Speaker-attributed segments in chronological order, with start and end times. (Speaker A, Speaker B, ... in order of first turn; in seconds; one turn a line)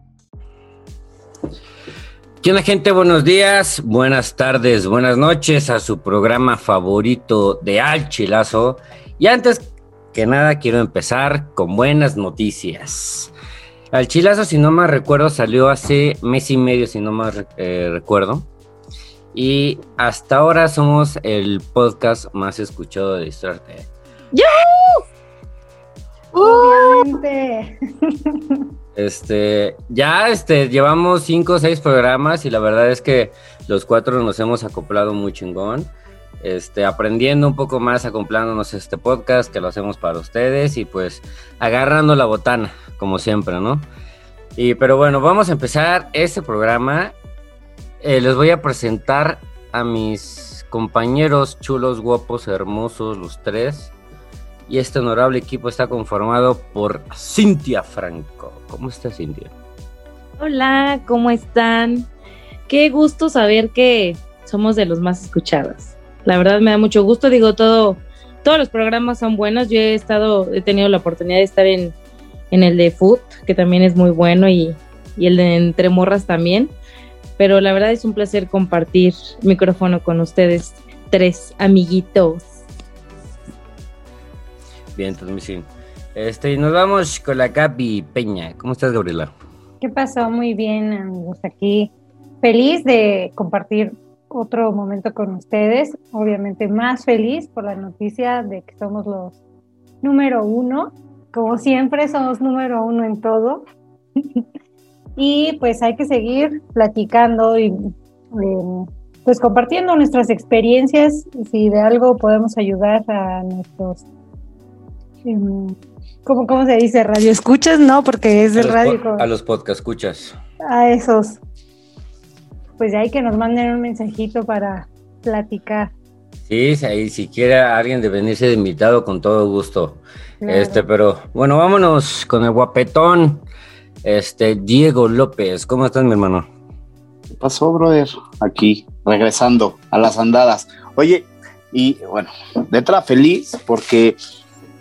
Speaker A: 2.4-13.3
Speaker A: 13.9-18.5
Speaker A: 19.3-23.9
Speaker B: 24.3-25.0
Speaker B: 26.3-27.0
Speaker C: 26.4-28.6
Speaker A: 28.9-35.9
Speaker A: 36.4-43.9
Speaker A: 44.6-47.1
Speaker A: 48.0-53.9
Speaker A: 54.7-59.5
Speaker B: 60.4-62.1
Speaker B: 62.7-71.9
Speaker B: 72.5-76.7
Speaker B: 77.4-82.5
Speaker A: 84.9-89.3
Speaker C: 89.8-99.4
Speaker C: 100.0-103.6
Speaker C: 105.2-114.0
Speaker C: 115.2-119.3
Speaker A: 118.5-120.4
Speaker C: 120.6-121.4
Speaker C: 122.8-125.9
Speaker A: 126.5-133.4
Speaker C: 130.4-130.9
Speaker A: 134.0-136.4
Speaker D: 137.3-144.2